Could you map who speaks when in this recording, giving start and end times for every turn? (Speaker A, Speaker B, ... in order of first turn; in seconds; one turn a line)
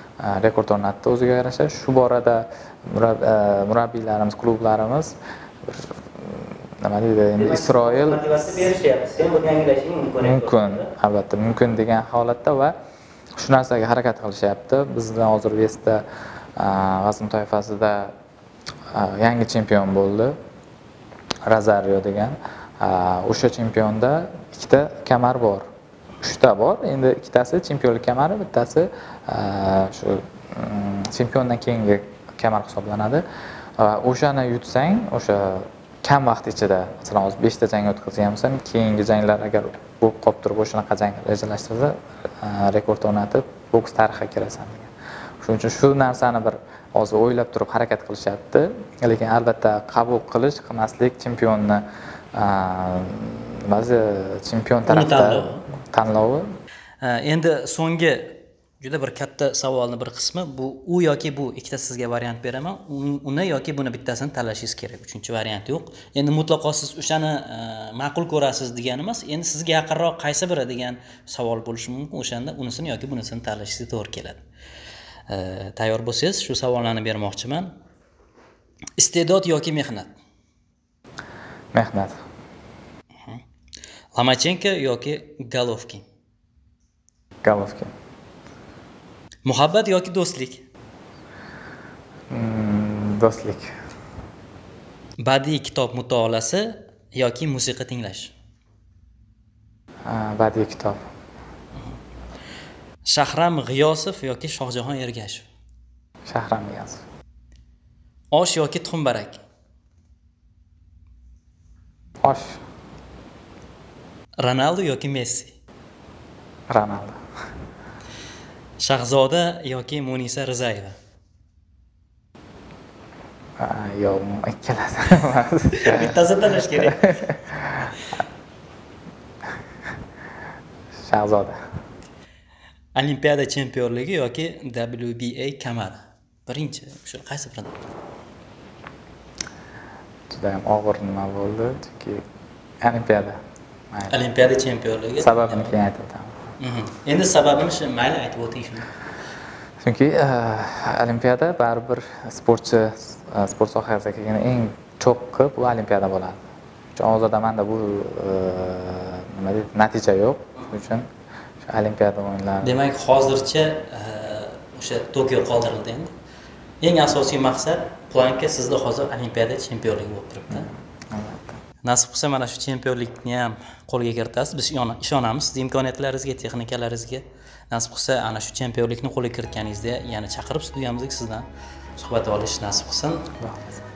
Speaker A: 0.2-8.7
Speaker B: 7.4-10.9
Speaker A: 10.2-12.8
Speaker A: 13.4-16.1
Speaker A: 16.6-18.1
Speaker A: 18.9-20.4
Speaker A: 21.5-25.7
Speaker A: 26.2-33.2
Speaker A: 33.8-44.9
Speaker A: 45.4-56.5
Speaker B: 54.9-55.6
Speaker B: 57.0-74.4
Speaker B: 75.3-77.7
Speaker B: 79.0-80.2
Speaker A: 81.7-82.2
Speaker B: 84.1-86.0
Speaker A: 87.4-87.9
Speaker B: 89.5-90.6
Speaker A: 92.3-93.8
Speaker B: 95.2-98.3
Speaker A: 100.1-101.0
Speaker B: 103.0-105.5
Speaker A: 106.3-107.0
Speaker B: 108.3-109.4
Speaker A: 112.2-112.6
Speaker B: 114.4-115.5
Speaker A: 116.7-117.2
Speaker B: 118.8-121.0
Speaker A: 123.6-127.9
Speaker B: 125.8-127.0
Speaker A: 131.0-131.6
Speaker B: 133.0-137.9
Speaker A: 140.3-142.2
Speaker A: 142.8-143.4
Speaker A: 143.9-144.2
Speaker B: 144.1-145.8
Speaker A: 145.2-146.5
Speaker B: 146.6-148.9
Speaker A: 149.8-156.4
Speaker A: 156.9-161.1
Speaker A: 161.6-162.8
Speaker B: 162.6-166.1
Speaker B: 166.8-170.7
Speaker A: 170.5-171.6
Speaker B: 171.8-181.5
Speaker B: 182.0-183.3
Speaker A: 183.4-183.8